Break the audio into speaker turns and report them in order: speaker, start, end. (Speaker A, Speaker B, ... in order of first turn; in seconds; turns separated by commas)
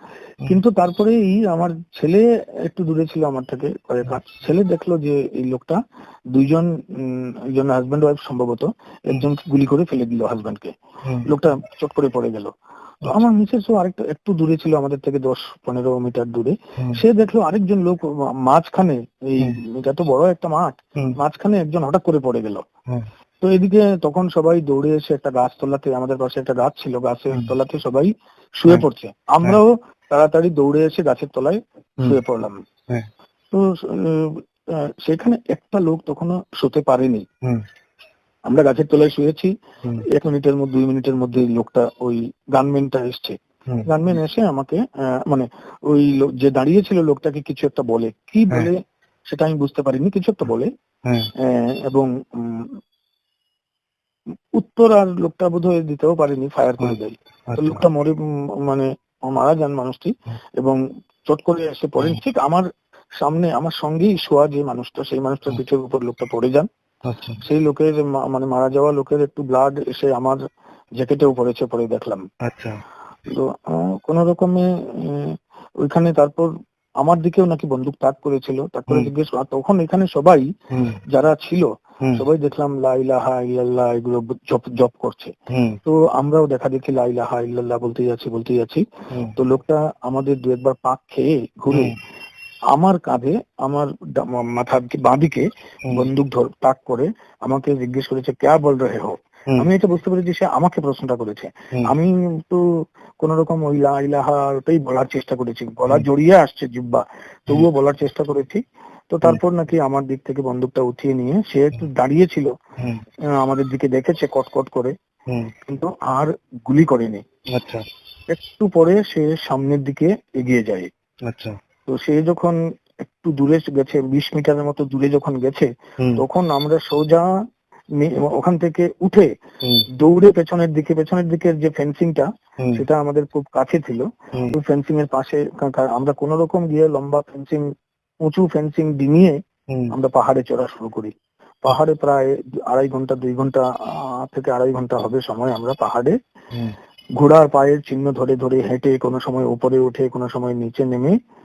Speaker A: 0.5-5.8, Speaker A: 6.3-10.7, Speaker B: 11.1-11.3, Speaker A: 11.2-12.5, Speaker A: 13.0-22.7, Speaker A: 23.4-32.6, Speaker A: 33.5-37.2, Speaker A: 38.5-39.5, Speaker A: 40.1-50.7, Speaker B: 51.1-51.3, Speaker A: 51.4-52.8, Speaker A: 54.6-62.6, Speaker B: 57.5-57.8, Speaker A: 63.2-66.7, Speaker B: 67.1-67.4, Speaker A: 67.4-70.4, Speaker A: 71.0-72.2, Speaker B: 72.4-72.8, Speaker A: 73.3-76.5, Speaker A: 77.0-80.5, Speaker B: 80.7-81.0, Speaker A: 81.1-85.3, Speaker B: 85.5-85.8, Speaker A: 85.8-92.0, Speaker B: 91.7-92.0, Speaker A: 92.7-102.6, Speaker A: 103.2-112.5, Speaker A: 113.4-114.9, Speaker A: 115.6-117.2, Speaker B: 117.5-117.9, Speaker A: 118.3-120.9, Speaker B: 121.2-121.6, Speaker A: 121.9-127.3, Speaker A: 128.0-129.3, Speaker A: 130.0-137.7, Speaker A: 138.2-139.4, Speaker A: 139.9-141.1, Speaker A: 141.6-146.2, Speaker A: 147.2-151.1